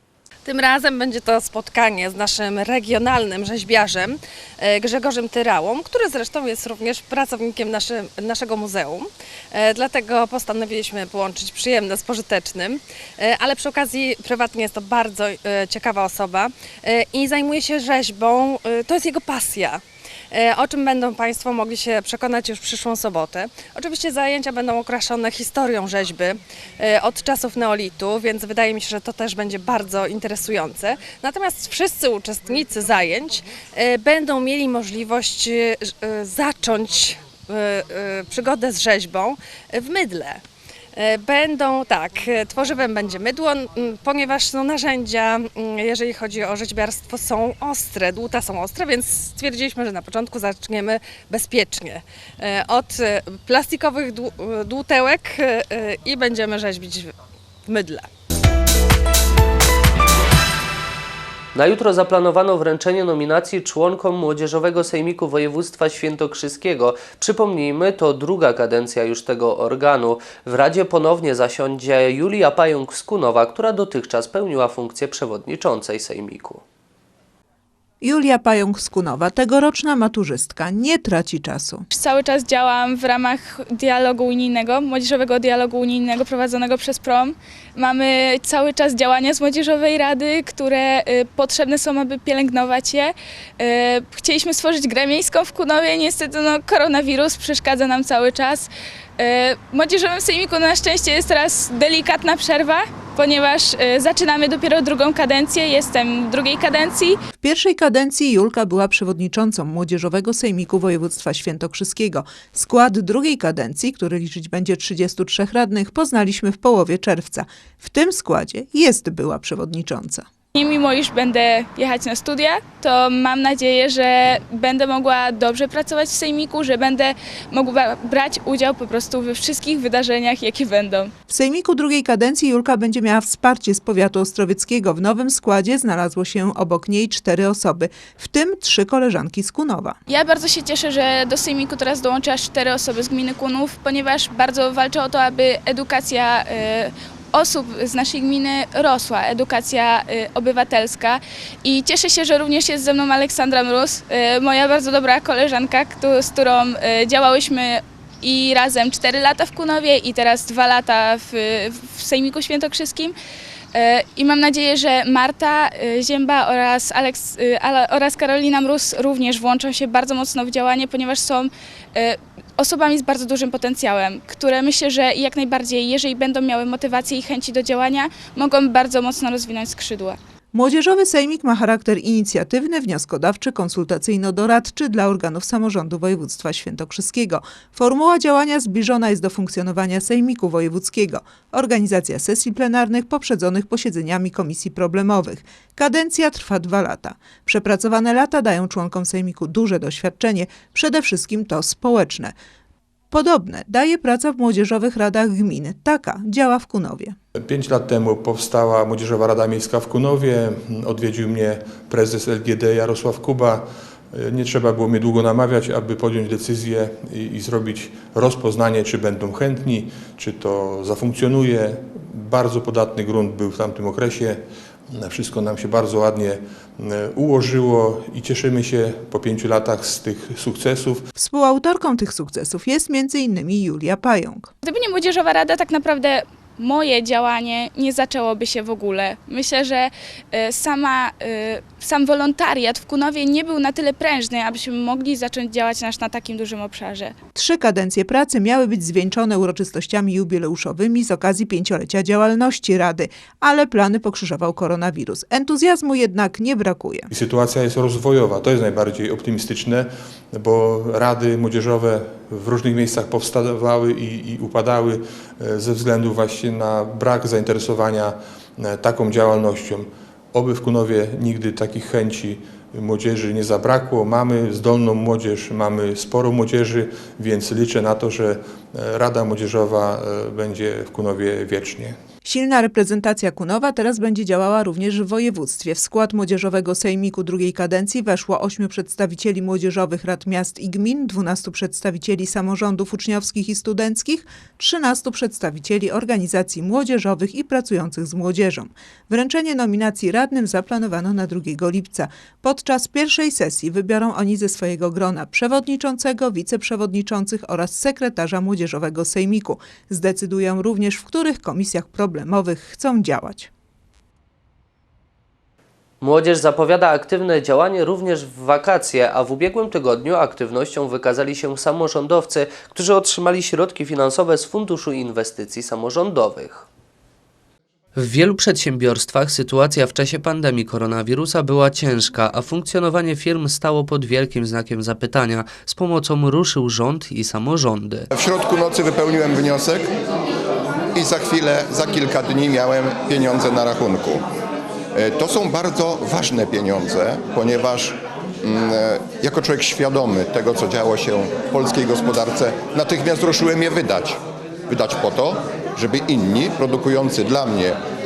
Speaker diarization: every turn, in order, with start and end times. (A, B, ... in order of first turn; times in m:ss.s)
0:00.4-0:40.4 A
0:41.0-0:57.1 A
0:57.6-0:58.1 A
1:01.6-1:16.6 B
1:18.0-1:21.8 C
1:21.9-1:47.2 D
1:47.4-2:00.2 C
2:00.5-2:11.1 D
2:11.3-2:20.0 C
2:20.1-2:43.2 D
2:43.7-3:00.2 D
3:00.5-3:22.3 C
3:23.1-3:27.2 C
3:27.4-3:51.1 E
3:51.2-3:54.5 C
3:54.6-4:07.2 D
4:07.4-4:17.1 C
4:17.1-4:42.0 E
4:42.2-5:13.5 C
5:16.0-5:26.7 B
5:28.0-5:38.1 B
5:38.1-5:39.9 F
5:40.9-5:44.2 F
5:45.0-5:57.8 F